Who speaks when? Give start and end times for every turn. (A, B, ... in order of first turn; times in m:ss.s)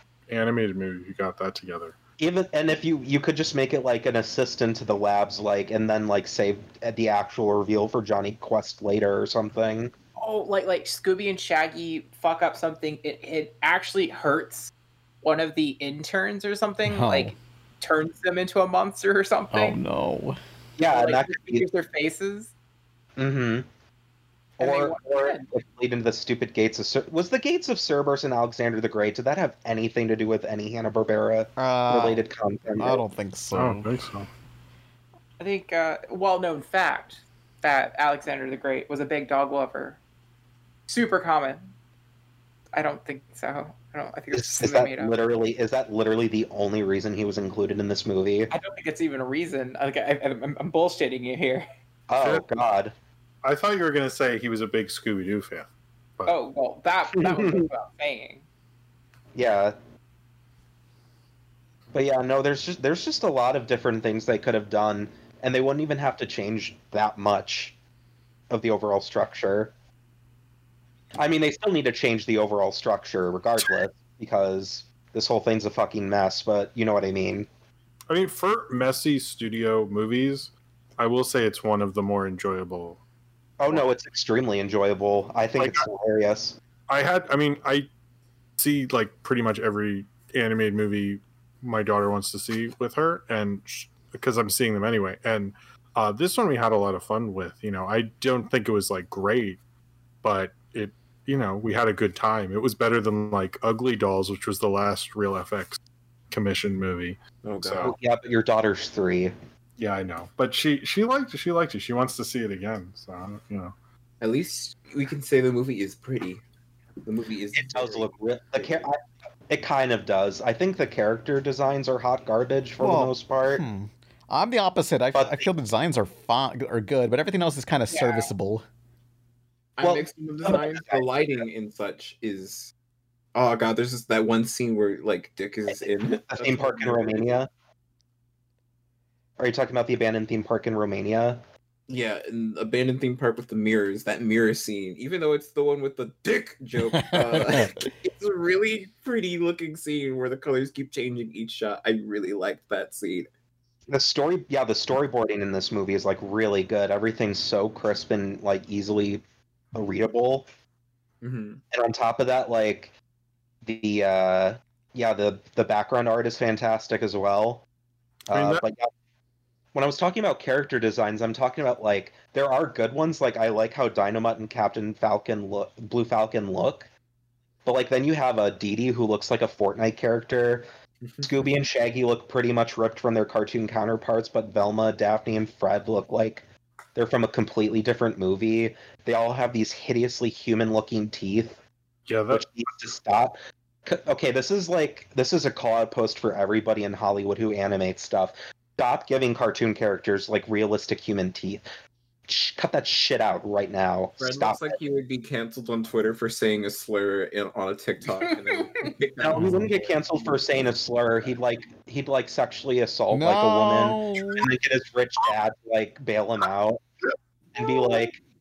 0:00.3-0:02.0 A
0:02.2-0:09.9 B
0:10.2-0:19.8 C
0:16.9-0:17.4 D
0:19.5-0:20.4 D
0:20.8-0:21.7 B
0:20.9-0:22.5 C
0:23.2-0:23.7 B
0:24.6-0:33.0 B
0:24.6-0:25.5 C
0:31.6-0:32.2 D
0:32.8-0:33.9 D
0:33.5-0:34.3 A
0:35.4-0:40.0 C
0:40.9-0:41.7 C
0:42.7-0:45.1 C
0:44.3-0:48.5 B
0:48.5-0:51.7 C
0:52.1-0:53.0 B
0:52.2-0:52.5 A
0:53.4-0:55.7 A
0:56.2-0:58.4 C
0:57.2-0:57.7 B
0:59.4-0:59.8 B
1:01.9-1:07.8 B
1:08.5-1:09.7 B
1:11.2-1:17.5 B
1:18.1-1:23.0 A
1:23.6-1:26.6 B
1:25.6-1:25.8 A
1:26.9-1:27.9 A
1:28.6-1:39.6 A
1:40.2-1:45.8 A
1:46.3-1:48.0 A
1:47.4-1:47.9 E
1:47.8-1:49.3 B
1:49.8-1:53.7 A
1:54.2-1:56.4 E
1:57.0-1:58.8 E
1:57.5-2:03.6 B
2:02.8-2:08.6 D
2:05.1-2:05.5 B
2:07.9-2:08.3 C
2:09.8-2:12.7 E
2:09.8-2:11.4 B
2:13.3-2:17.4 E
2:15.7-2:17.5 B
2:19.4-2:21.4 B
2:21.9-2:33.3 E
2:27.0-2:27.9 D
2:33.9-2:39.2 B
2:39.8-2:40.5 B
2:41.2-2:41.6 E
2:41.7-2:42.9 B
2:43.6-2:47.6 B
2:48.3-2:48.9 B
2:48.3-2:48.6 A
2:49.7-2:56.9 B
2:57.6-3:00.7 B
3:01.0-3:01.3 E
3:01.2-3:06.4 B
3:07.0-3:11.6 B
3:12.1-3:12.5 A
3:12.3-3:21.6 B
3:22.3-3:24.8 B
3:24.2-3:30.0 E
3:29.2-3:36.8 B
3:29.4-3:29.6 A
3:33.1-3:34.5 D
3:37.6-3:38.2 B